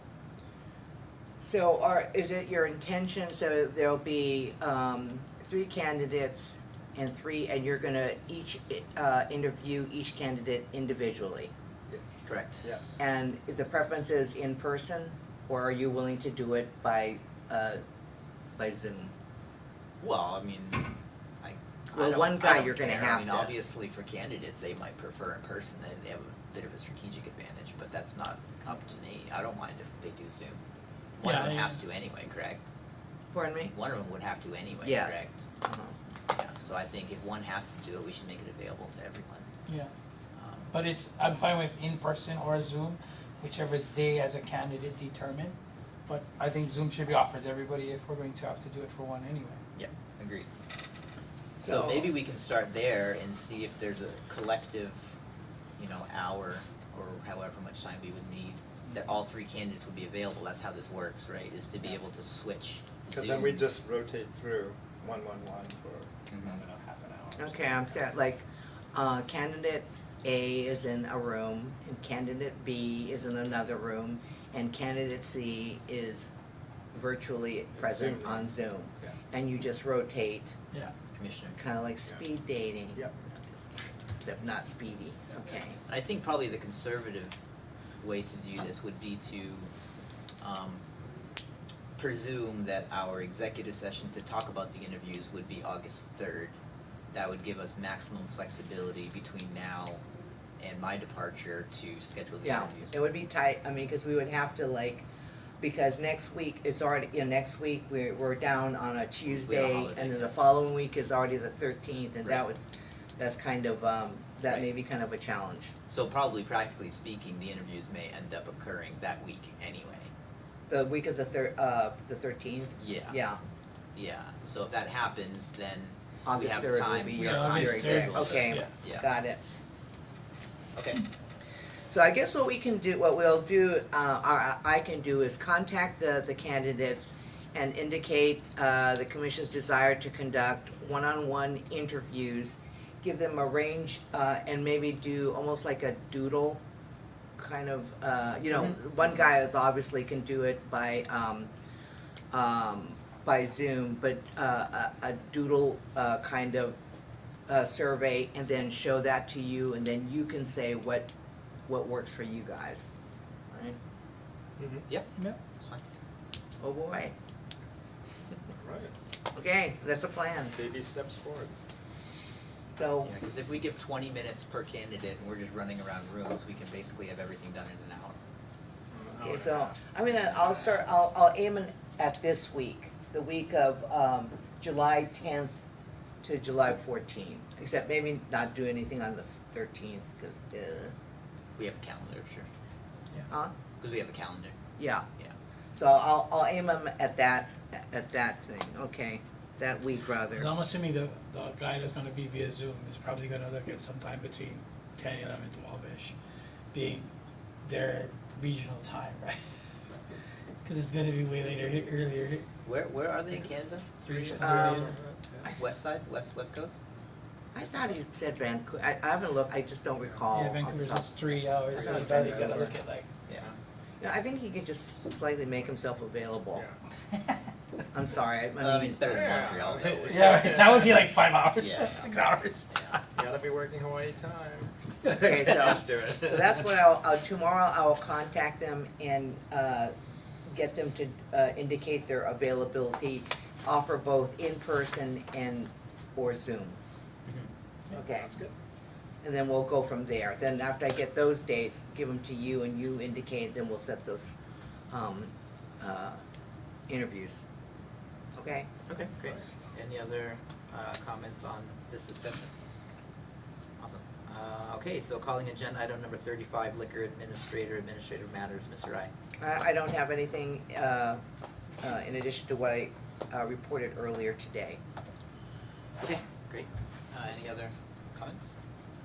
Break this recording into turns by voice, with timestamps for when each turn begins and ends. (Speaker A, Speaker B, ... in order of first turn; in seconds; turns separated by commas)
Speaker A: 1.4-11.5, Speaker B: 12.2-12.7, Speaker A: 13.0-17.8, Speaker A: 18.6-19.1, Speaker B: 20.0-30.6, Speaker A: 21.9-23.6, Speaker B: 31.2-32.6, Speaker C: 31.2-31.8, Speaker A: 33.3-33.7, Speaker B: 33.7-35.4, Speaker A: 34.8-36.0, Speaker B: 36.3-39.5, Speaker B: 40.3-40.7, Speaker C: 40.7-45.5, Speaker C: 46.1-49.6, Speaker B: 49.7-50.5, Speaker A: 51.6-52.1, Speaker B: 51.6-55.1, Speaker B: 55.8-63.7, Speaker D: 63.1-67.8, Speaker B: 66.3-66.6, Speaker A: 67.4-76.3, Speaker A: 76.9-80.5, Speaker D: 77.7-78.5, Speaker B: 81.1-81.6, Speaker A: 81.6-85.8, Speaker B: 85.9-87.4, Speaker B: 88.0-89.7, Speaker B: 90.4-90.8, Speaker B: 92.0-96.6, Speaker B: 97.1-100.0, Speaker B: 100.6-103.0, Speaker A: 102.4-105.1, Speaker A: 105.6-115.7, Speaker B: 109.3-110.4, Speaker B: 115.9-120.1, Speaker A: 120.7-123.4, Speaker B: 122.8-123.2, Speaker B: 124.0-129.1, Speaker A: 126.2-129.4, Speaker C: 127.1-128.7, Speaker B: 130.8-131.0, Speaker A: 131.9-146.6, Speaker A: 147.4-151.5, Speaker A: 152.3-156.8, Speaker A: 157.5-161.1, Speaker A: 161.7-162.9, Speaker A: 163.5-163.8, Speaker D: 164.6-164.8, Speaker B: 164.9-165.8, Speaker A: 166.6-167.1, Speaker D: 168.6-168.9, Speaker A: 169.3-170.6, Speaker D: 170.5-171.5, Speaker A: 172.7-173.1, Speaker B: 173.0-178.2, Speaker D: 178.9-179.8, Speaker A: 179.2-185.6, Speaker A: 186.2-190.9, Speaker B: 191.6-192.5, Speaker B: 193.8-194.6, Speaker A: 194.8-195.1, Speaker A: 195.8-200.5, Speaker C: 200.3-206.1, Speaker C: 206.7-207.1, Speaker C: 207.6-209.5, Speaker C: 210.6-212.4, Speaker B: 212.6-213.9, Speaker C: 214.0-214.9, Speaker D: 214.0-215.4, Speaker A: 214.4-215.6, Speaker B: 215.5-216.8, Speaker A: 217.5-222.7, Speaker C: 220.3-223.1, Speaker D: 221.7-222.7, Speaker B: 223.3-223.5, Speaker A: 224.0-226.7, Speaker A: 227.9-229.3, Speaker B: 228.6-230.6, Speaker D: 229.1-231.0, Speaker C: 230.1-233.1, Speaker B: 231.6-232.1, Speaker B: 232.7-233.0, Speaker D: 233.2-236.7, Speaker A: 235.1-239.9, Speaker A: 240.5-246.8, Speaker A: 247.9-248.3, Speaker D: 248.2-248.5, Speaker A: 249.2-254.3, Speaker A: 254.9-256.2, Speaker A: 256.9-257.4, Speaker A: 258.3-258.7, Speaker B: 258.9-262.5, Speaker B: 263.8-269.1, Speaker A: 269.4-271.2, Speaker A: 271.8-274.8, Speaker B: 276.0-278.6